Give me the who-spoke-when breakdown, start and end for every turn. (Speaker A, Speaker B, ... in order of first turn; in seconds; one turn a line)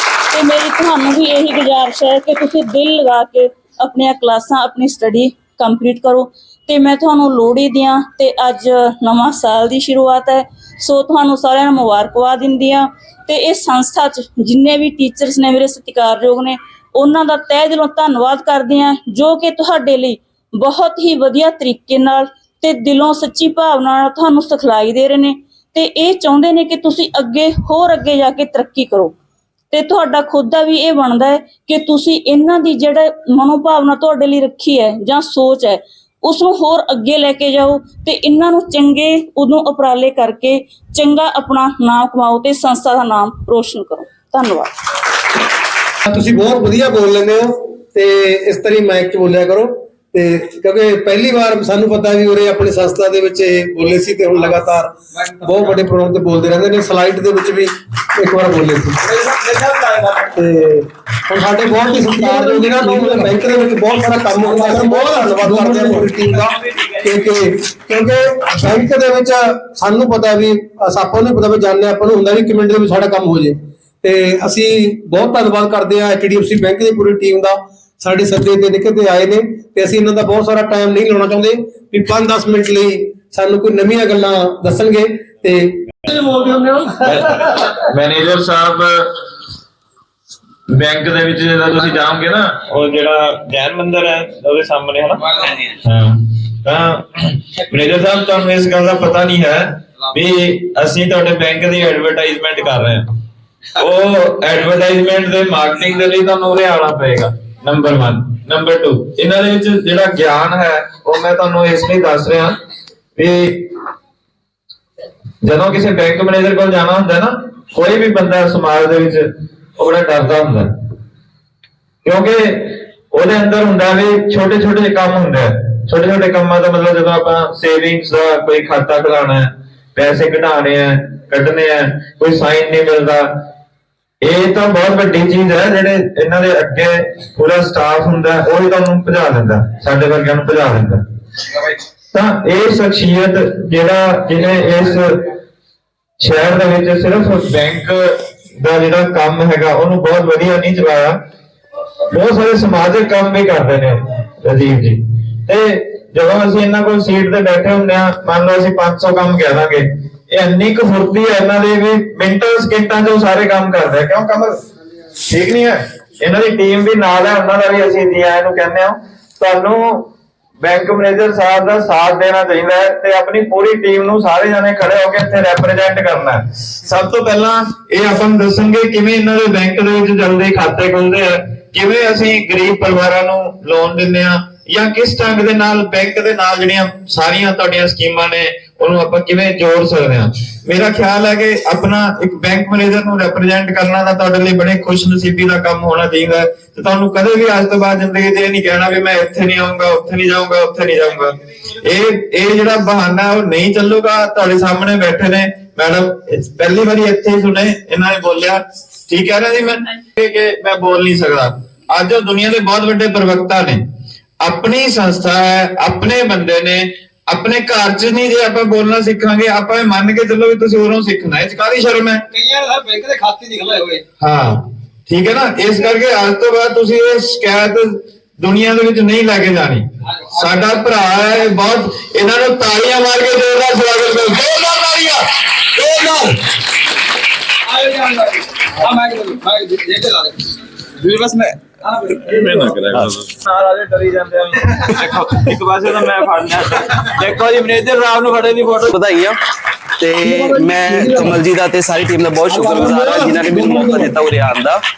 Speaker A: 0.3-29.1
Speaker A: 29.7-44.7
Speaker B: 46.0-59.0
Speaker C: 59.3-60.0
Speaker B: 60.3-87.0
Speaker D: 87.0-89.1
Speaker D: 90.7-103.1
Speaker D: 103.8-112.5
Speaker D: 113.2-113.7
Speaker D: 115.4-120.7
Speaker D: 122.0-133.3
Speaker D: 134.2-141.0
Speaker D: 142.1-145.3
Speaker D: 146.2-151.2
Speaker D: 152.1-164.6
Speaker D: 165.3-213.8
Speaker D: 214.4-222.2
Speaker C: 222.4-224.0
Speaker D: 224.2-236.4
Speaker D: 237.7-238.0
Speaker C: 238.9-240.3
Speaker D: 241.0-248.9
Speaker E: 248.9-249.4
Speaker E: 250.0-254.8
Speaker B: 250.2-251.3
Speaker B: 252.5-254.1